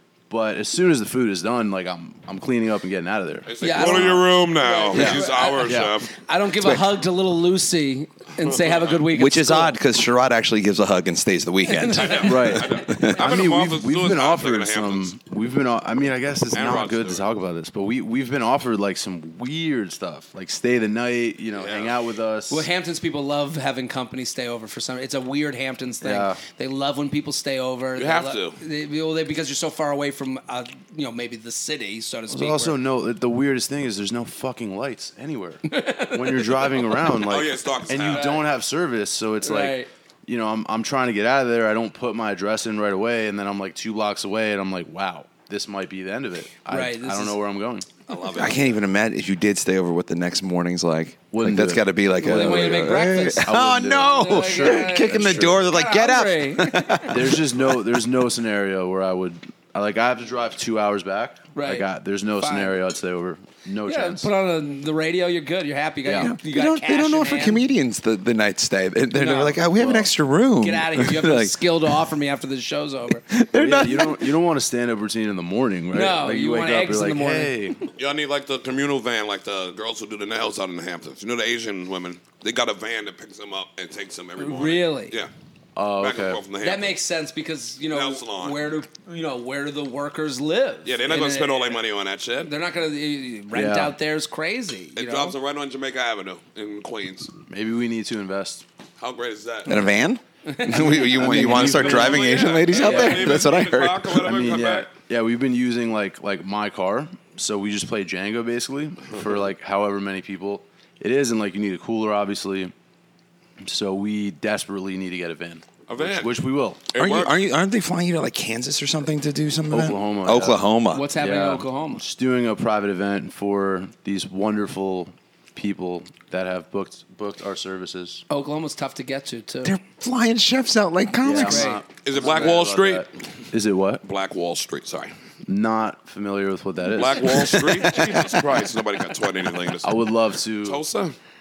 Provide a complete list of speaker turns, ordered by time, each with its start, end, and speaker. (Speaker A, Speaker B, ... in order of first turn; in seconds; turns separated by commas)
Speaker A: 0.3-4.2, Speaker B: 3.5-6.1, Speaker C: 3.6-9.8, Speaker A: 4.9-6.0, Speaker D: 6.6-6.8, Speaker B: 8.5-9.0, Speaker D: 9.1-13.2, Speaker C: 11.7-12.5, Speaker B: 12.0-15.1, Speaker A: 12.2-22.7, Speaker B: 16.5-17.3, Speaker B: 21.5-21.9, Speaker C: 22.5-32.8, Speaker A: 26.0-26.4, Speaker B: 28.0-28.6, Speaker A: 32.3-47.9, Speaker C: 35.7-36.8, Speaker B: 36.8-38.4, Speaker C: 38.0-38.4, Speaker C: 39.4-39.9, Speaker C: 46.7-47.4, Speaker B: 48.1-48.8, Speaker D: 48.3-57.8, Speaker A: 51.3-55.7, Speaker C: 52.2-57.1, Speaker A: 57.1-64.3, Speaker C: 61.5-61.9, Speaker C: 62.4-62.8, Speaker C: 63.9-67.6, Speaker A: 66.0-66.3, Speaker D: 66.1-71.9, Speaker C: 69.1-69.6, Speaker A: 69.7-70.1, Speaker C: 70.6-73.3, Speaker D: 73.3-74.3, Speaker A: 73.5-77.9, Speaker C: 75.9-77.5, Speaker B: 78.0-85.3, Speaker C: 84.4-85.1, Speaker A: 85.8-86.4, Speaker B: 86.0-87.0, Speaker C: 86.6-91.8, Speaker B: 87.9-88.6, Speaker B: 90.8-92.5, Speaker C: 92.5-95.3, Speaker A: 93.5-94.0, Speaker B: 95.0-97.3, Speaker A: 97.5-98.6, Speaker B: 99.0-99.8, Speaker D: 99.7-104.3, Speaker C: 100.5-101.7, Speaker A: 100.7-103.2, Speaker B: 101.5-104.9, Speaker C: 102.7-103.2, Speaker A: 104.2-112.7, Speaker A: 113.6-116.8, Speaker B: 115.9-116.3, Speaker B: 116.9-117.3, Speaker D: 116.9-121.1, Speaker A: 119.7-120.6, Speaker C: 120.9-122.0, Speaker A: 121.2-128.2, Speaker C: 128.3-129.8, Speaker D: 129.6-131.8, Speaker A: 131.2-134.0, Speaker C: 131.3-131.8, Speaker B: 132.0-133.1, Speaker B: 134.0-135.1, Speaker A: 135.5-138.0, Speaker B: 136.9-140.0, Speaker A: 139.8-140.8, Speaker B: 140.6-141.2